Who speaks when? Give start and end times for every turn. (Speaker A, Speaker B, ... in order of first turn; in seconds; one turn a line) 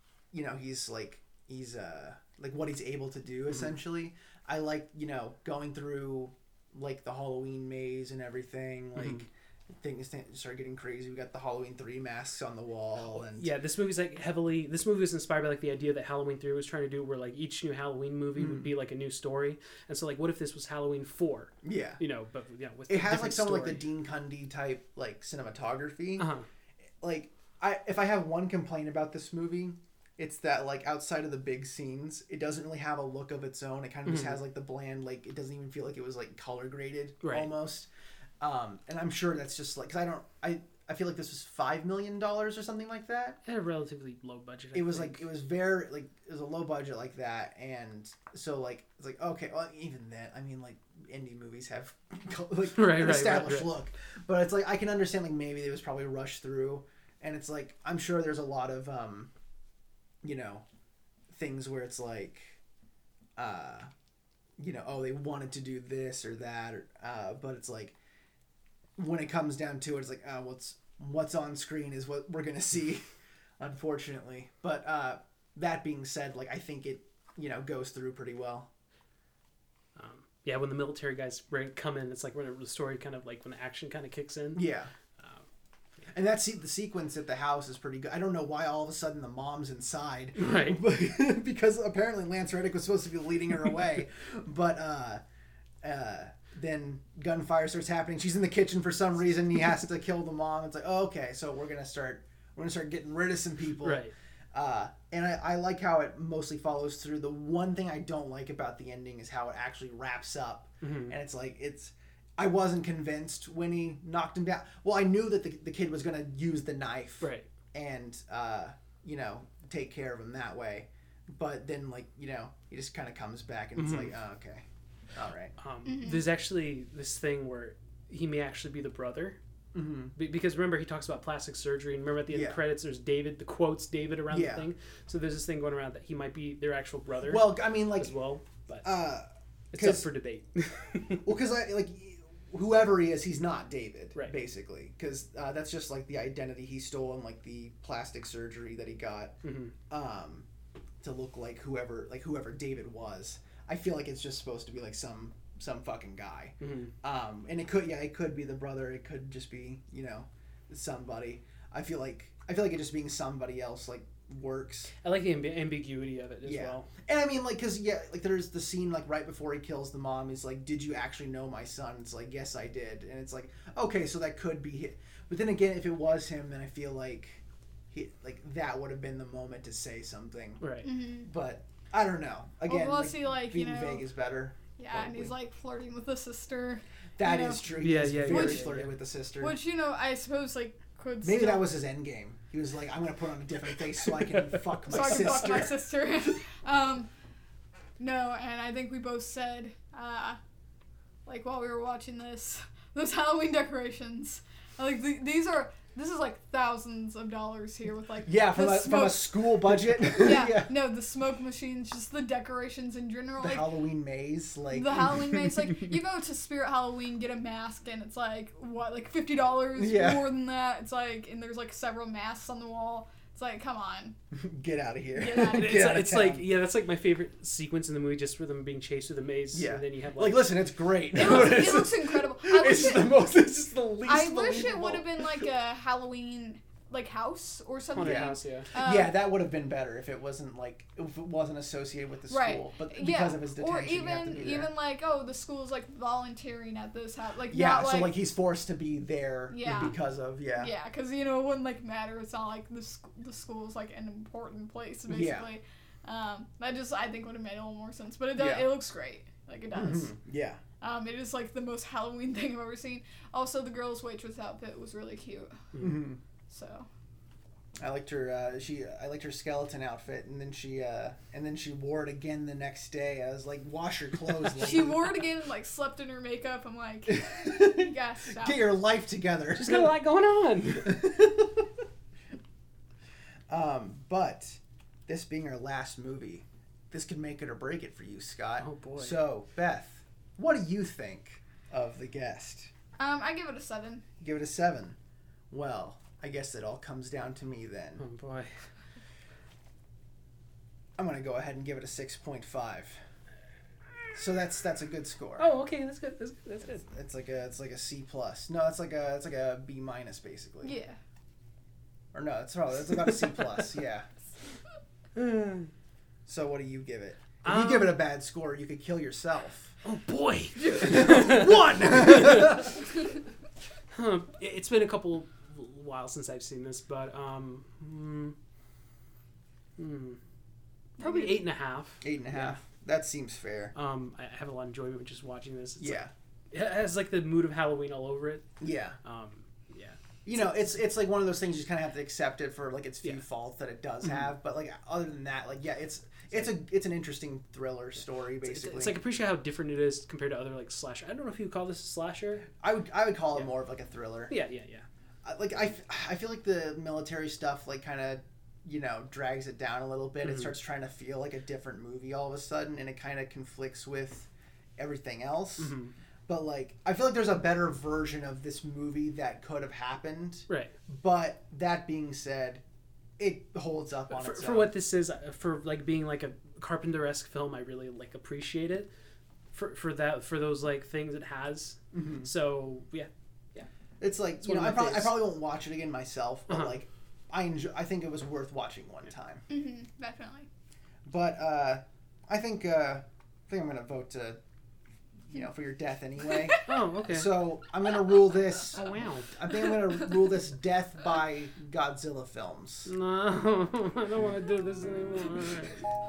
Speaker A: 0.3-13.5
Speaker B: 9.0-9.2
Speaker B: 13.1-23.8
Speaker A: 18.4-18.7
Speaker A: 21.6-22.0
Speaker A: 22.9-26.3
Speaker B: 26.2-26.4
Speaker A: 27.0-37.9
Speaker B: 34.0-34.4
Speaker B: 37.2-37.5
Speaker A: 38.4-43.4
Speaker B: 43.4-45.2
Speaker A: 44.7-59.3
Speaker B: 52.8-53.7
Speaker A: 60.2-60.6
Speaker A: 61.3-62.6
Speaker A: 63.4-63.9
Speaker A: 64.6-67.9
Speaker A: 69.0-73.0
Speaker A: 73.6-78.7
Speaker B: 80.0-84.6
Speaker A: 84.5-84.9
Speaker B: 85.2-85.4
Speaker A: 86.1-95.2
Speaker B: 90.3-90.8
Speaker A: 95.8-125.5
Speaker B: 103.8-104.1
Speaker B: 110.8-111.2
Speaker B: 117.2-117.5
Speaker B: 123.8-124.1
Speaker B: 125.6-129.4
Speaker C: 125.8-126.2
Speaker A: 129.7-130.1
Speaker B: 130.1-138.9
Speaker A: 132.3-132.6
Speaker A: 134.3-134.7
Speaker A: 137.2-138.1
Speaker A: 138.8-140.1
Speaker B: 139.7-141.2
Speaker A: 141.2-149.3
Speaker B: 149.4-149.7
Speaker A: 149.9-150.4
Speaker A: 151.0-164.9
Speaker B: 156.6-156.9
Speaker B: 165.0-166.9
Speaker A: 166.4-180.6
Speaker B: 180.6-180.9
Speaker C: 180.8-181.3
Speaker A: 181.2-185.3
Speaker C: 182.7-184.0
Speaker C: 184.8-187.7
Speaker A: 187.2-189.6
Speaker B: 187.8-188.9
Speaker C: 188.3-188.7
Speaker C: 189.4-191.7
Speaker A: 191.2-196.3
Speaker B: 194.3-195.2
Speaker C: 194.9-197.1
Speaker C: 198.0-200.4
Speaker C: 201.2-213.7
Speaker A: 208.2-210.7
Speaker A: 213.4-215.3
Speaker C: 214.7-224.2
Speaker A: 219.8-220.2
Speaker A: 224.3-226.4
Speaker C: 225.1-225.8
Speaker B: 225.5-230.5
Speaker A: 229.5-235.4
Speaker C: 231.1-233.2
Speaker C: 234.1-239.2
Speaker B: 237.9-238.7
Speaker A: 237.9-244.7
Speaker C: 242.3-248.1
Speaker A: 247.5-250.7
Speaker C: 249.5-249.9
Speaker C: 250.5-260.1
Speaker A: 255.1-255.5
Speaker A: 258.4-258.7
Speaker A: 259.7-260.6
Speaker C: 260.8-265.7
Speaker B: 265.7-266.0
Speaker A: 265.8-266.2
Speaker C: 266.5-266.9
Speaker A: 267.8-275.1
Speaker C: 274.5-278.6
Speaker A: 277.1-279.9
Speaker B: 279.5-280.9
Speaker A: 280.7-281.7
Speaker A: 283.5-292.7
Speaker B: 288.6-289.2
Speaker C: 293.0-294.0
Speaker A: 294.2-295.0
Speaker A: 295.5-298.0
Speaker B: 298.0-298.5
Speaker A: 301.0-303.0
Speaker A: 304.1-305.5
Speaker B: 305.4-306.8
Speaker A: 306.7-310.8
Speaker C: 310.6-311.0
Speaker A: 312.1-314.1
Speaker B: 315.1-315.7
Speaker A: 316.2-319.8
Speaker B: 317.4-317.9
Speaker B: 319.8-322.7
Speaker C: 320.6-321.1
Speaker A: 320.8-322.8
Speaker B: 323.9-328.3
Speaker B: 329.8-330.2
Speaker B: 331.0-332.6
Speaker C: 331.0-331.4
Speaker A: 332.0-333.7
Speaker B: 333.7-340.6
Speaker A: 335.8-336.1
Speaker A: 338.6-339.0
Speaker A: 340.2-349.0
Speaker B: 348.4-352.5
Speaker A: 352.5-354.3
Speaker B: 354.3-354.9
Speaker A: 355.2-365.7
Speaker B: 360.2-360.5
Speaker B: 365.6-365.9
Speaker A: 366.3-372.6
Speaker B: 370.5-370.7
Speaker A: 373.2-374.7
Speaker B: 374.1-378.9
Speaker B: 379.5-383.7
Speaker A: 381.9-382.3
Speaker A: 384.0-389.4
Speaker B: 384.4-385.1
Speaker B: 386.5-386.8
Speaker C: 389.5-390.5
Speaker A: 391.1-394.4
Speaker A: 395.3-402.9
Speaker B: 396.6-397.3
Speaker B: 398.7-399.4
Speaker B: 402.9-405.8